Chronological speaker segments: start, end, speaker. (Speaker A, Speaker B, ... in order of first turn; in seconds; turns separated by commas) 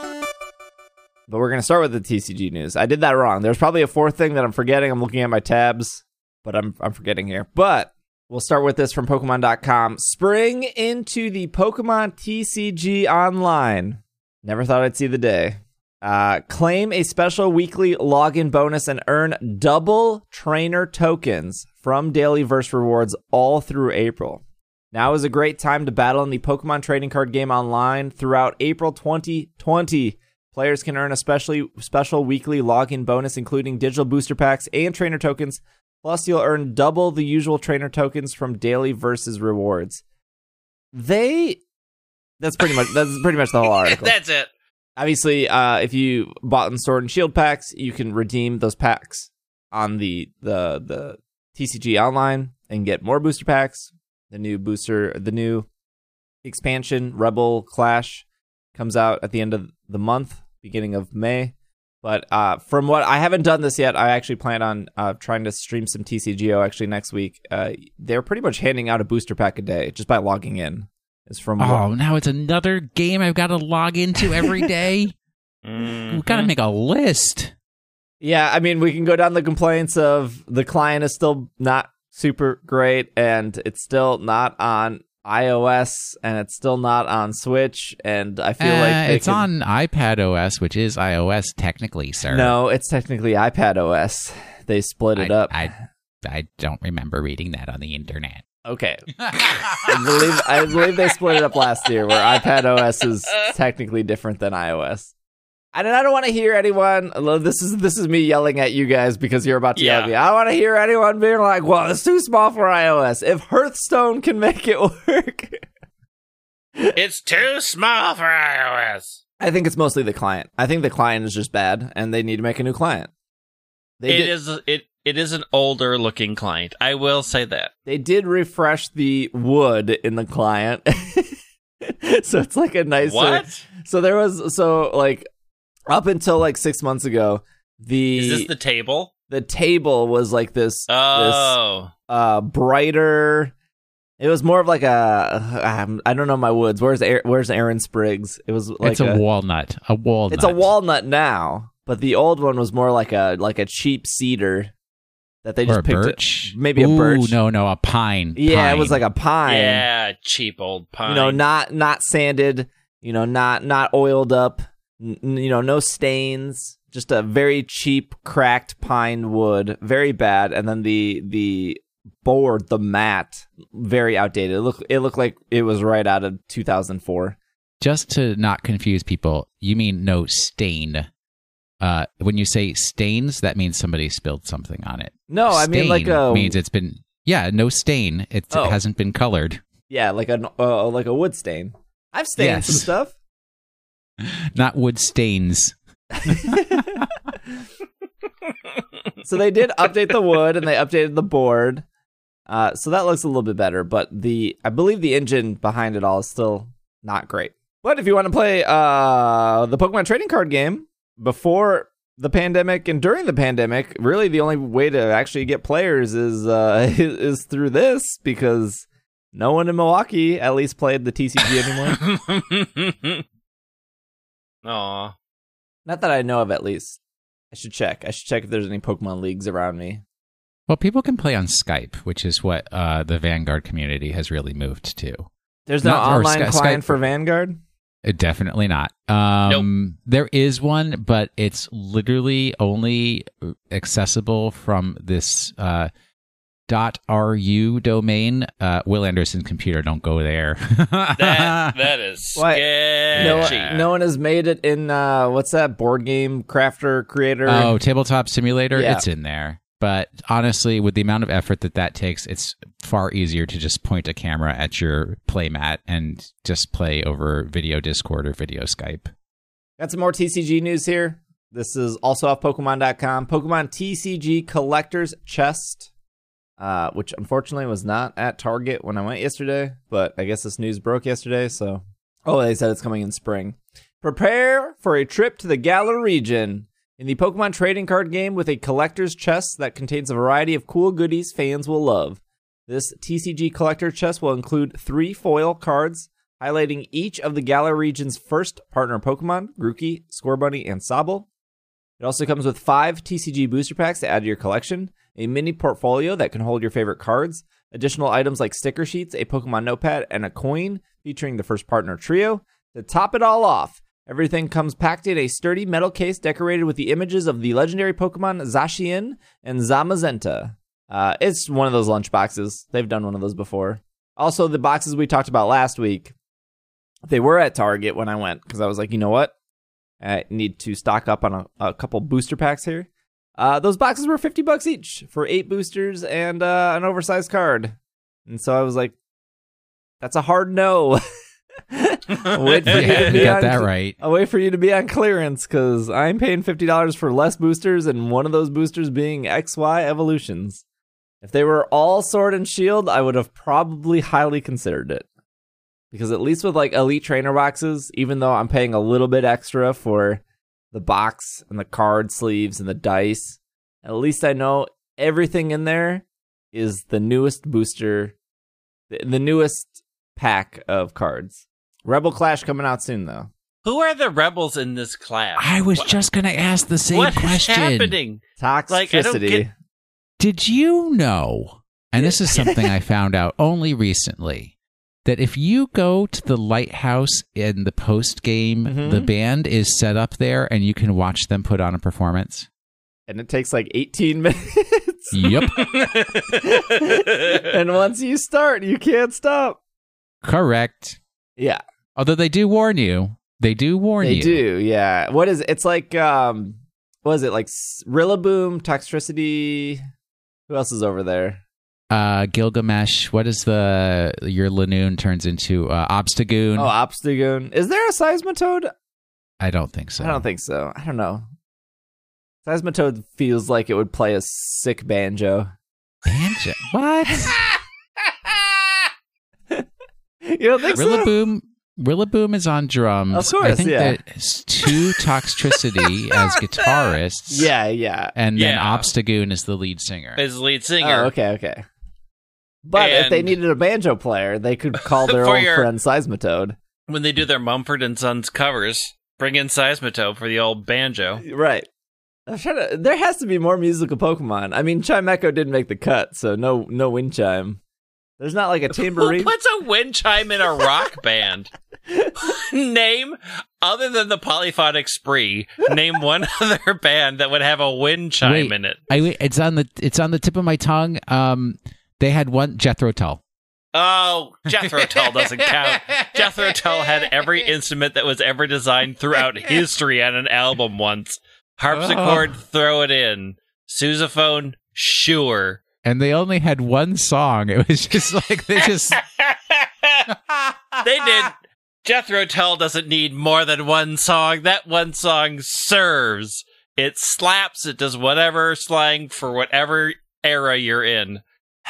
Speaker A: 1.3-40.0, Speaker A: 40.9-41.6, Speaker A: 42.4-44.1, Speaker B: 43.6-44.5, Speaker A: 45.0-55.7, Speaker A: 56.4-71.8, Speaker C: 71.6-75.1, Speaker A: 74.3-74.7, Speaker B: 75.6-76.5, Speaker C: 76.1-77.5, Speaker A: 78.2-89.5, Speaker C: 88.6-92.5, Speaker A: 92.3-95.8, Speaker C: 95.2-98.5, Speaker A: 98.6-105.1, Speaker C: 99.2-100.2, Speaker A: 105.7-115.6, Speaker B: 109.8-110.1, Speaker B: 116.9-119.2, Speaker A: 119.4-123.1, Speaker A: 124.0-124.3, Speaker B: 124.1-127.7, Speaker A: 127.8-135.3, Speaker B: 133.0-133.6, Speaker A: 135.9-138.5, Speaker B: 138.1-139.1, Speaker A: 139.3-141.6, Speaker B: 140.9-141.9, Speaker A: 142.1-143.5, Speaker A: 144.2-149.2, Speaker C: 148.8-150.7, Speaker A: 150.3-154.7, Speaker A: 155.4-157.3, Speaker C: 155.7-159.0, Speaker A: 158.3-159.8, Speaker B: 159.4-161.4, Speaker A: 161.1-177.4, Speaker C: 177.8-181.1, Speaker C: 181.8-189.6, Speaker A: 185.3-186.6, Speaker A: 188.5-188.8, Speaker A: 189.9-193.1, Speaker C: 192.4-192.9, Speaker C: 194.2-197.1, Speaker A: 196.2-197.0, Speaker A: 199.2-201.8, Speaker A: 202.5-222.0, Speaker B: 221.6-223.2, Speaker B: 224.6-225.1, Speaker A: 225.8-227.0, Speaker A: 227.5-230.0, Speaker C: 230.7-235.3, Speaker A: 235.7-237.6, Speaker C: 235.8-237.0, Speaker C: 238.0-245.9, Speaker C: 246.7-251.7, Speaker B: 251.2-253.9, Speaker A: 252.4-257.7, Speaker C: 253.1-253.6, Speaker C: 257.4-269.1, Speaker A: 258.7-259.0, Speaker A: 269.8-275.9, Speaker A: 276.6-301.3, Speaker A: 302.0-326.1, Speaker A: 327.1-329.3, Speaker A: 330.0-337.8, Speaker A: 338.3-338.9, Speaker A: 340.0-341.0, Speaker A: 341.7-350.6, Speaker B: 342.3-343.3, Speaker C: 342.7-344.0, Speaker A: 351.2-355.1, Speaker A: 355.9-368.1, Speaker A: 368.9-373.3, Speaker B: 373.6-375.9, Speaker C: 375.4-377.9, Speaker B: 376.9-379.4, Speaker A: 378.4-379.5, Speaker C: 380.2-384.5, Speaker A: 382.0-382.6, Speaker C: 385.0-392.5, Speaker A: 388.6-389.1, Speaker A: 393.1-395.6, Speaker C: 395.1-395.6, Speaker B: 395.5-397.5, Speaker A: 396.2-399.6, Speaker C: 400.2-401.0, Speaker C: 401.9-404.4, Speaker A: 404.0-409.8, Speaker A: 410.5-411.4, Speaker C: 411.9-416.7, Speaker A: 416.6-418.7, Speaker C: 419.4-420.2, Speaker A: 420.0-421.2, Speaker A: 422.4-425.5, Speaker C: 426.0-427.4, Speaker A: 427.1-427.6, Speaker A: 430.2-431.1, Speaker C: 430.7-437.5, Speaker A: 433.1-434.0, Speaker A: 437.3-438.1, Speaker C: 438.1-440.2, Speaker B: 438.3-438.9, Speaker B: 440.1-441.1, Speaker A: 440.8-441.6, Speaker A: 442.6-446.6, Speaker B: 442.8-443.4, Speaker B: 444.9-445.7, Speaker B: 446.9-451.2, Speaker A: 451.2-451.6, Speaker A: 452.3-457.6, Speaker A: 458.2-459.3, Speaker B: 458.8-461.5, Speaker A: 461.9-462.1, Speaker B: 462.2-469.0, Speaker C: 468.2-473.2, Speaker B: 473.7-485.6, Speaker C: 474.6-477.5, Speaker C: 479.2-479.6, Speaker C: 481.7-482.3, Speaker C: 485.8-489.0, Speaker B: 488.6-490.1, Speaker C: 490.1-491.3, Speaker B: 490.8-501.2